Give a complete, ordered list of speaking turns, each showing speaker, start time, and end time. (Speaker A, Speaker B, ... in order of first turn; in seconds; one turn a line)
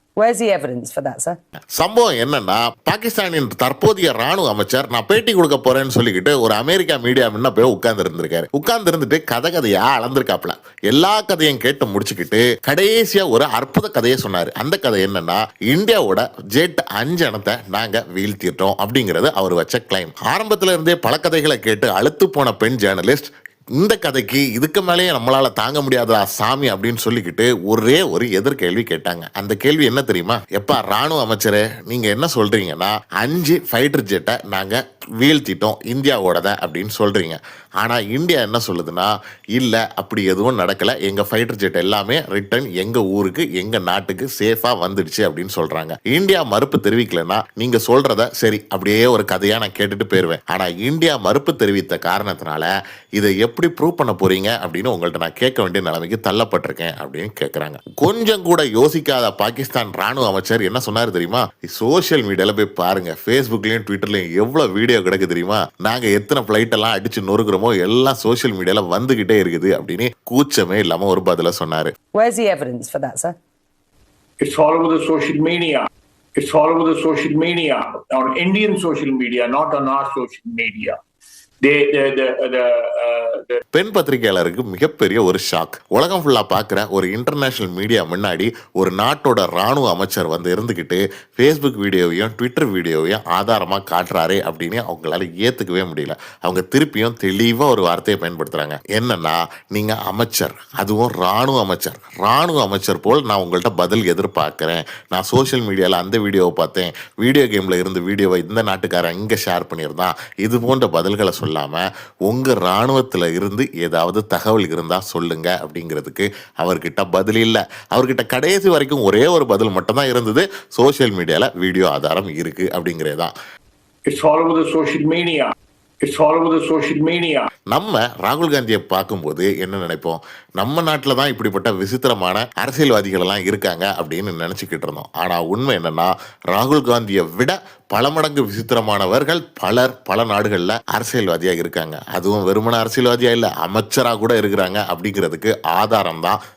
Speaker A: 0.2-1.4
Speaker B: 1.8-71.9
Speaker A: 72.1-73.4
Speaker C: 74.4-81.0
Speaker C: 81.6-83.6
Speaker B: 83.7-123.3
Speaker C: 124.1-127.5
Speaker B: 127.7-146.4